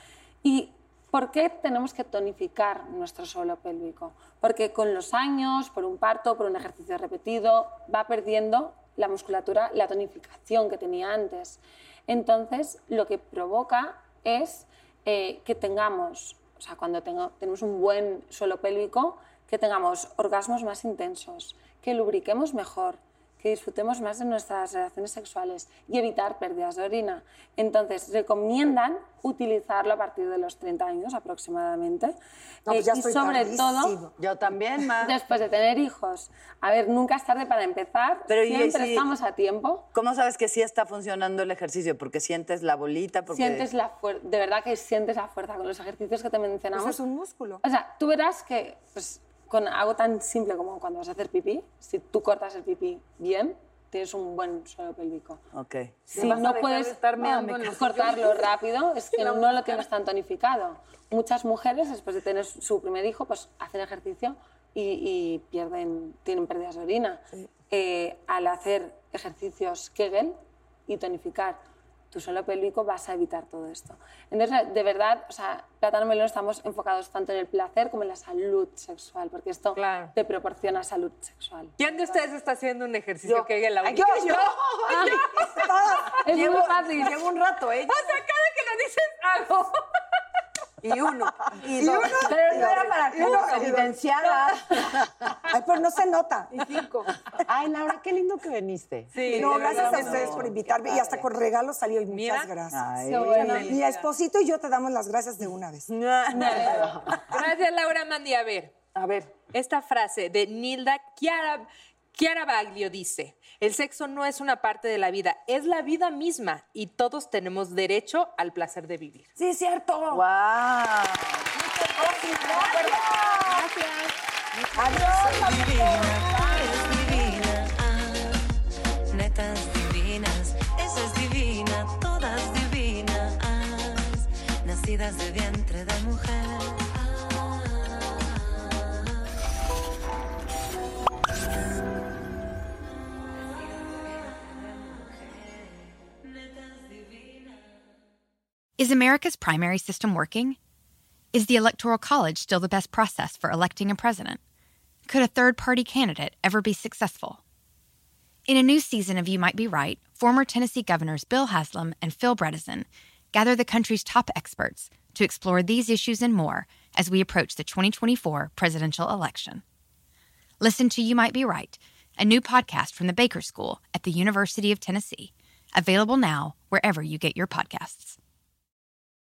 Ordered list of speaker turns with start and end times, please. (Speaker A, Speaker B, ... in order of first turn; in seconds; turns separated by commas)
Speaker A: 0.4-32.1, Speaker A: 32.7-34.0, Speaker B: 32.7-34.1, Speaker C: 34.2-35.1, Speaker A: 34.9-39.9, Speaker C: 38.3-39.1, Speaker C: 39.9-43.7, Speaker A: 43.3-47.0, Speaker B: 46.7-47.6, Speaker A: 47.6-55.4, Speaker C: 55.5-56.1, Speaker D: 56.1-58.5, Speaker A: 56.1-71.6, Speaker D: 59.1-59.8, Speaker A: 72.1-82.3, Speaker E: 79.8-80.1, Speaker E: 81.8-86.2, Speaker D: 83.2-85.4, Speaker B: 83.9-84.6, Speaker A: 84.9-85.2, Speaker B: 85.3-86.3, Speaker A: 86.2-87.3, Speaker D: 86.4-88.2, Speaker E: 87.9-89.8, Speaker D: 90.8-94.1, Speaker B: 91.7-94.0, Speaker C: 92.2-94.5, Speaker B: 95.5-96.5, Speaker D: 96.5-97.1, Speaker F: 97.4-101.2, Speaker E: 99.1-100.5, Speaker D: 99.3-100.3, Speaker B: 99.3-102.8, Speaker C: 99.7-100.5, Speaker E: 102.1-102.5, Speaker C: 102.7-103.8, Speaker D: 103.1-103.7, Speaker A: 103.2-103.6, Speaker E: 103.2-104.1, Speaker B: 103.5-105.9, Speaker D: 105.9-107.5, Speaker A: 106.3-107.1, Speaker F: 106.6-106.9, Speaker E: 107.3-108.7, Speaker D: 108.9-109.3, Speaker E: 109.5-119.3, Speaker D: 119.4-120.2, Speaker C: 120.1-121.5, Speaker B: 121.9-123.6, Speaker A: 123.5-124.1, Speaker D: 124.8-125.4, Speaker G: 125.0-128.5, Speaker B: 125.7-126.1, Speaker G: 129.1-139.0, Speaker G: 144.7-145.3, Speaker G: 146.4-147.5, Speaker H: 148.8-150.6, Speaker H: 151.3-154.4, Speaker H: 155.1-157.4, Speaker H: 158.5-169.6, Speaker H: 170.6-178.2